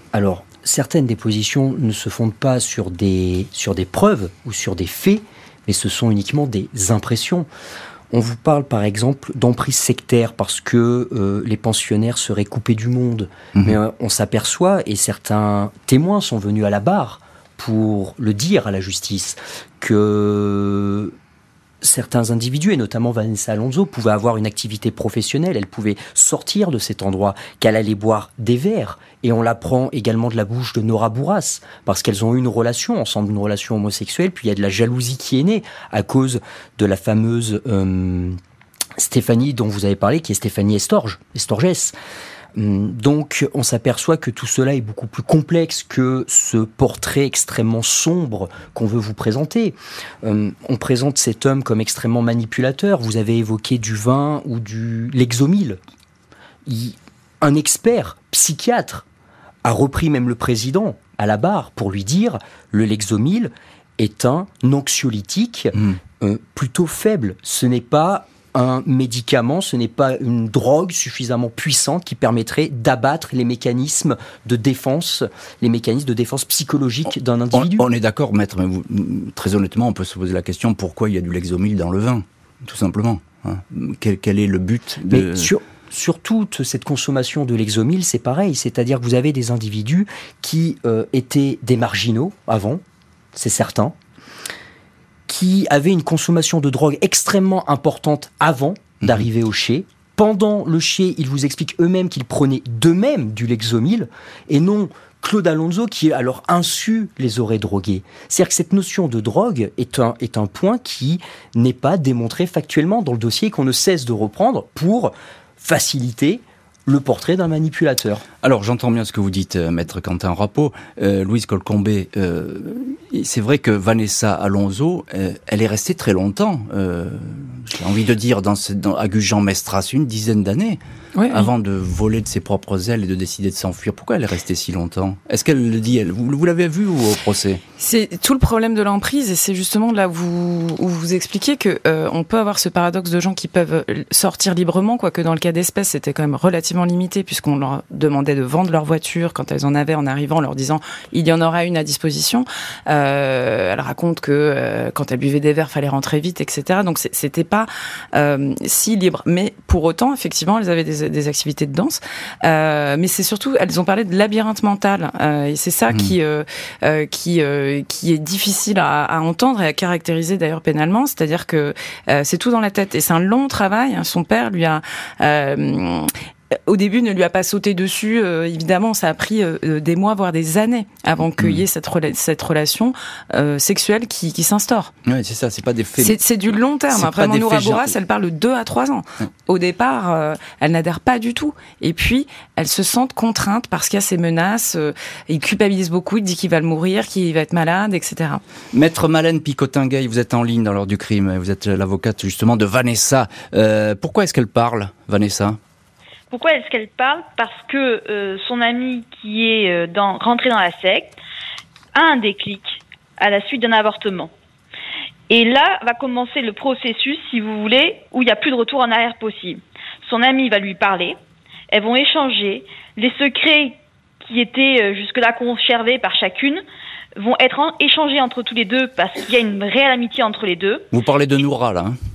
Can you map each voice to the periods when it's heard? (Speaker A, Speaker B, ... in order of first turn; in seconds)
Speaker A: 0.1-7.5, 8.1-21.1, 21.8-38.4, 39.0-41.9, 42.5-55.8, 56.6-59.0, 59.6-77.9, 85.1-92.8, 93.3-94.0, 95.3-118.2
Speaker B: 77.5-85.5, 118.4-130.8, 131.3-137.6, 181.4-181.6, 185.1-186.2, 186.9-187.9, 198.7-205.6, 230.9-232.0
Speaker C: 131.2-131.5, 137.8-176.1, 176.7-184.9, 186.0-198.4
Speaker D: 206.3-211.1, 211.9-214.3, 215.3-221.2, 221.7-226.6, 227.2-230.9